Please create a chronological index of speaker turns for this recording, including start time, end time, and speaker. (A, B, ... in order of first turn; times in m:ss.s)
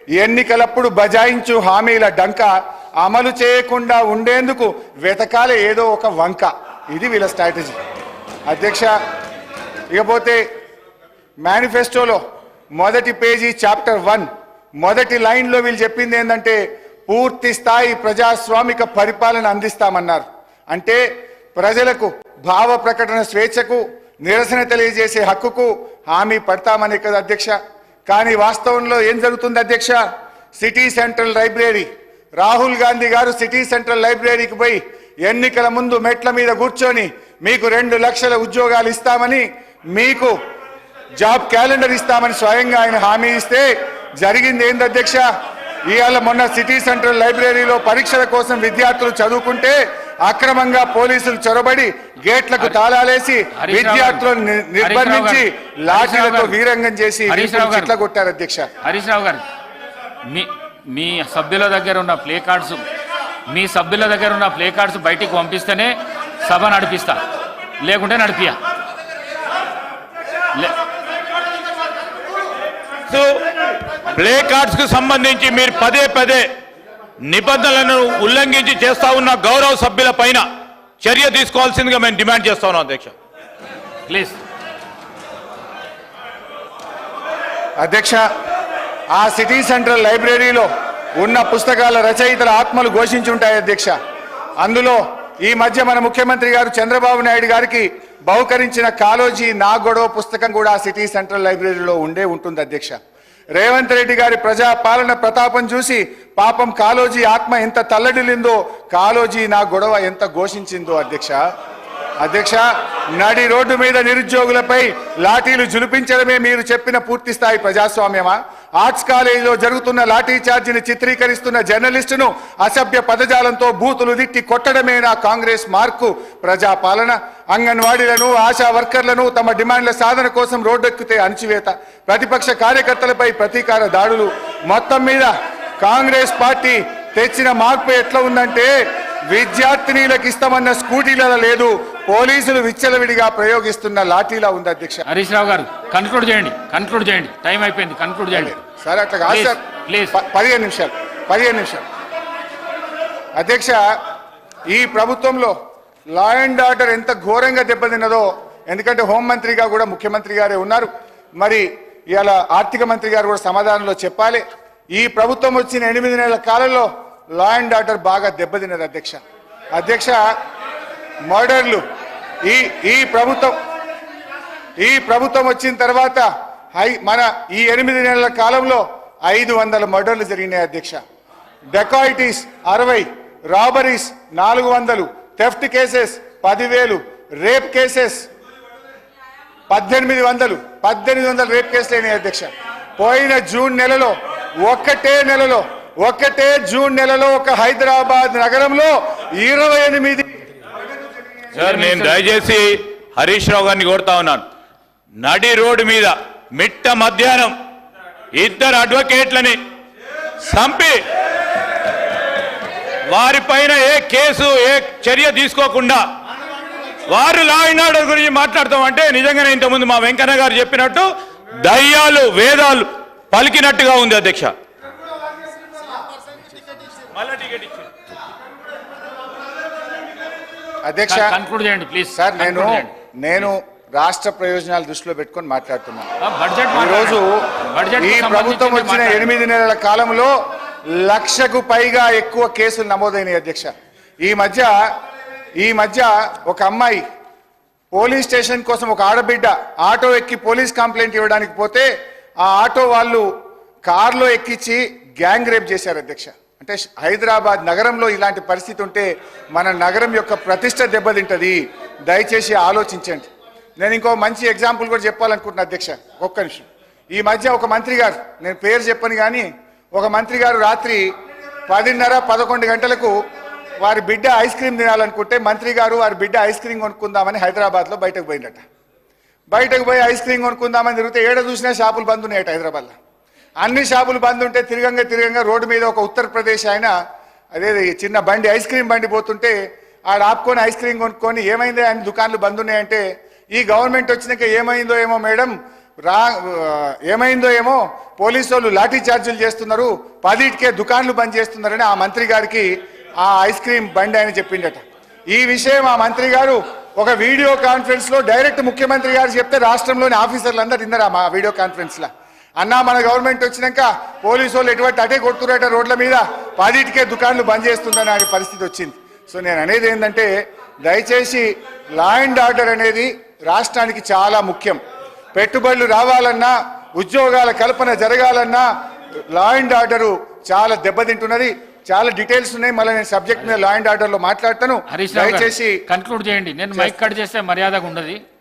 0:00.2-0:07.8 A
0:08.5-0:09.0 A
0:09.9-0:10.4 A
0:11.4-0:12.2 A
0:12.8-0:14.3 A
0:14.8-0:21.0 A
0:21.6-0:27.6 A
0:28.1-0:30.0 A
0:30.6-0:40.4 A
0:41.2-0:43.7 A
0:44.2-0:45.2 A
0:45.9-0:58.7 A
0:53.6-0:54.3 B
0:54.8-0:56.6 B
0:57.3-0:57.9 B
0:58.8-0:59.4 B
1:00.3-1:02.8 B
1:03.5-1:07.2 B
1:07.8-1:08.6 B
1:13.1-1:16.5 C
1:17.2-1:20.4 C
1:21.0-1:23.1 C
1:24.1-1:24.4 B
1:27.8-1:28.2 A
1:29.1-1:34.0 A
1:34.6-1:43.0 A
1:43.6-1:51.4 A
1:52.2-1:52.6 A
1:53.2-2:18.7 A
2:19.3-2:25.1 A
2:25.1-2:28.6 B
2:28.3-2:29.6 A
2:29.3-2:30.1 B
2:30.1-2:31.8 A
2:33.4-2:33.8 A
2:34.7-2:35.6 A
2:36.1-2:49.2 A
2:49.8-2:50.2 A
2:51.3-2:51.8 A
2:52.4-2:53.6 A
2:54.8-3:01.0 A
3:01.7-3:08.3 A
3:09.7-3:20.4 A
3:21.5-3:22.3 B
3:21.5-3:24.4 C
3:25.2-3:27.6 C
3:28.4-3:29.6 C
3:30.5-3:31.0 C
3:33.1-3:36.0 C
3:37.1-3:41.1 C
3:41.6-3:44.5 C
3:47.3-3:47.8 C
3:50.8-3:51.4 A
3:51.1-3:53.5 B
3:52.1-3:56.1 A
3:56.2-3:59.3 B
3:56.7-3:57.4 A
3:58.0-4:00.3 A
4:01.0-4:03.7 A
4:04.2-4:04.8 A
4:05.6-4:07.0 A
4:07.9-4:11.9 A
4:12.4-4:13.3 A
4:13.9-4:31.1 A
4:31.7-4:33.2 A
4:33.8-4:38.6 A
4:39.5-4:42.9 A
4:43.6-4:46.9 A
4:47.5-4:49.6 A
4:50.1-5:12.1 A
5:12.6-5:20.3 A
5:20.8-5:24.8 A
5:25.4-5:28.7 A
5:29.3-5:35.8 A
5:34.9-5:38.2 B